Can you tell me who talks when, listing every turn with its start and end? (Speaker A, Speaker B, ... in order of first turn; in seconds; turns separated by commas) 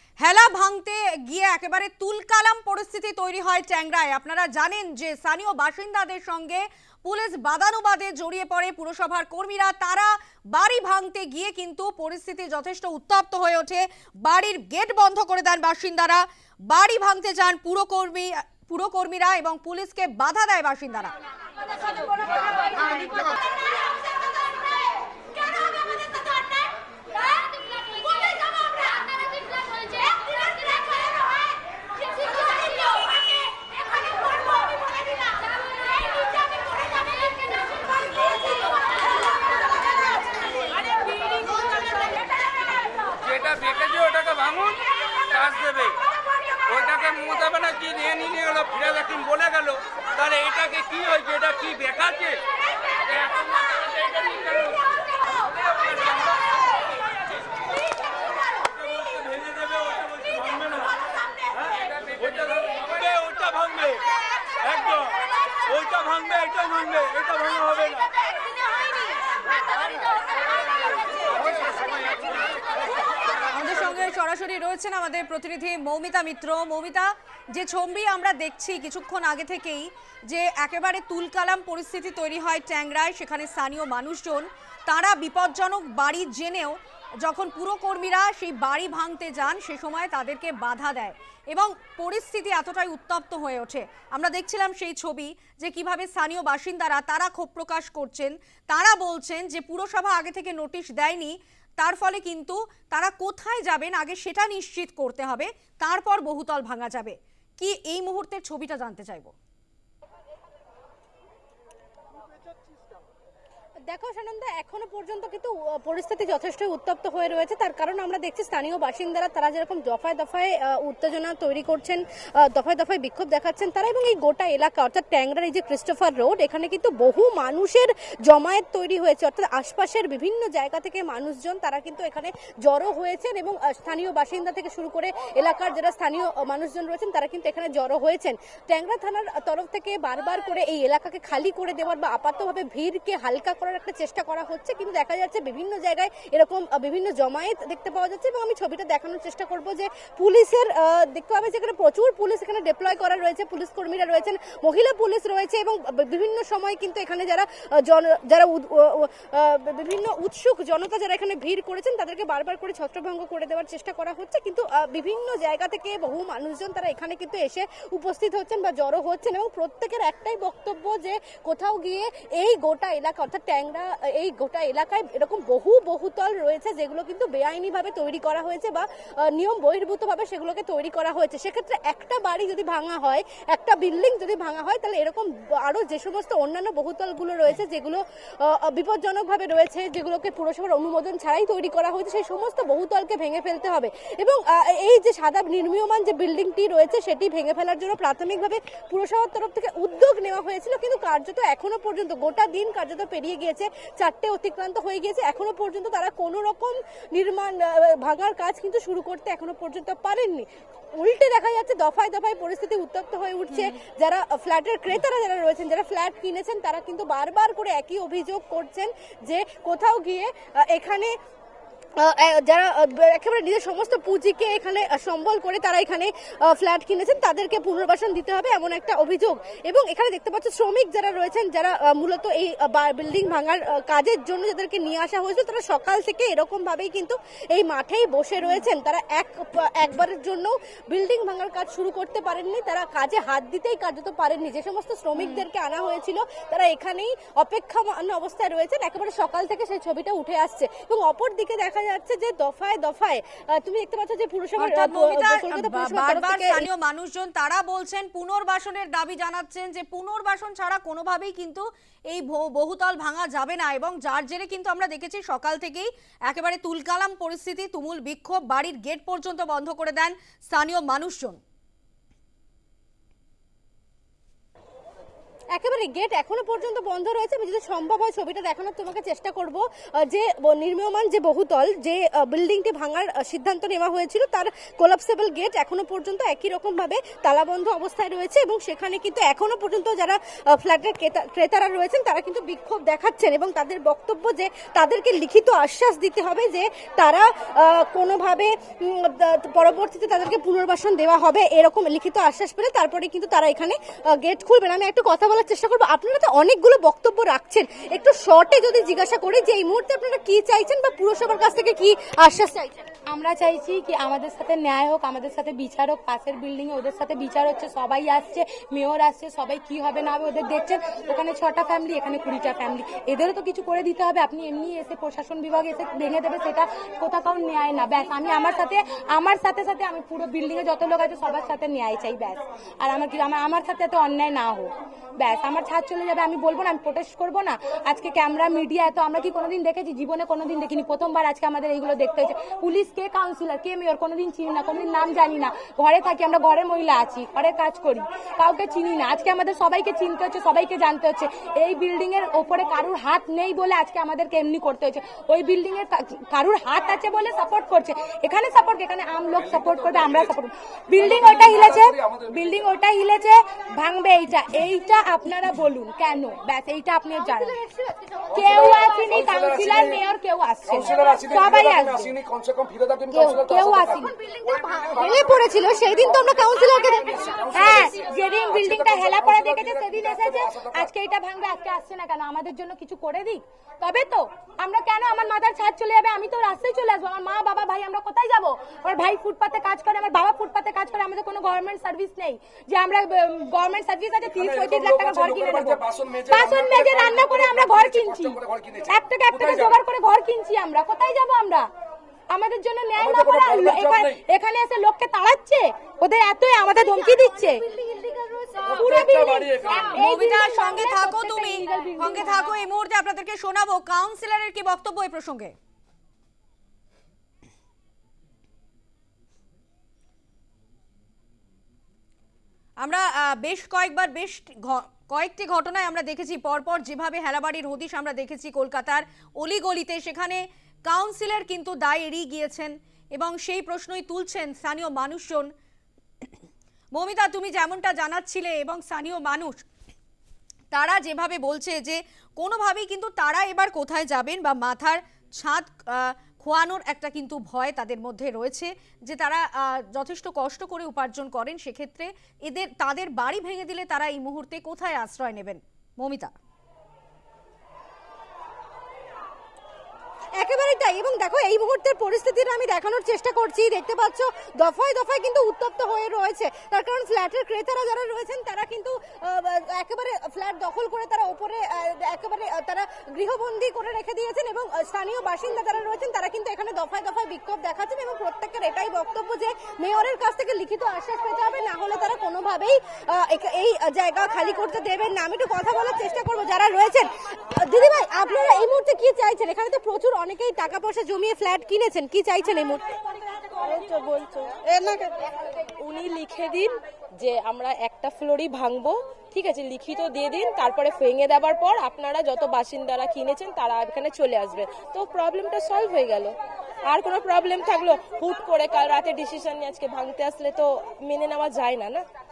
Speaker A: 0.2-21.1, Speaker B: 43.2-46.0, Speaker B: 46.7-52.4, Speaker B: 53.2-54.9, Speaker B: 55.8-56.1, Speaker B: 58.9-60.9, Speaker B: 61.7-64.1, Speaker B: 64.6-65.1, Speaker B: 65.7-68.1, Speaker A: 73.5-109.3, Speaker C: 113.9-221.1, Speaker A: 213.5-213.8, Speaker C: 222.0-256.6, Speaker A: 245.2-245.4, Speaker A: 254.6-271.4, Speaker C: 275.5-312.8, Speaker D: 313.1-367.6, Speaker E: 359.4-360.3, Speaker E: 360.9-362.7, Speaker E: 368.3-370.0, Speaker D: 368.3-372.2, Speaker E: 370.6-380.9, Speaker D: 373.1-374.1, Speaker C: 374.9-377.4, Speaker D: 377.5-401.7, Speaker E: 394.3-399.8, Speaker D: 402.3-407.8, Speaker E: 403.0-404.2, Speaker E: 408.6-410.0, Speaker D: 408.7-412.5, Speaker A: 409.9-415.5, Speaker A: 422.8-435.5, Speaker A: 436.9-439.6, Speaker A: 440.7-456.3, Speaker C: 460.4-492.9, Speaker F: 493.6-495.2, Speaker F: 495.8-506.3, Speaker F: 506.9-512.0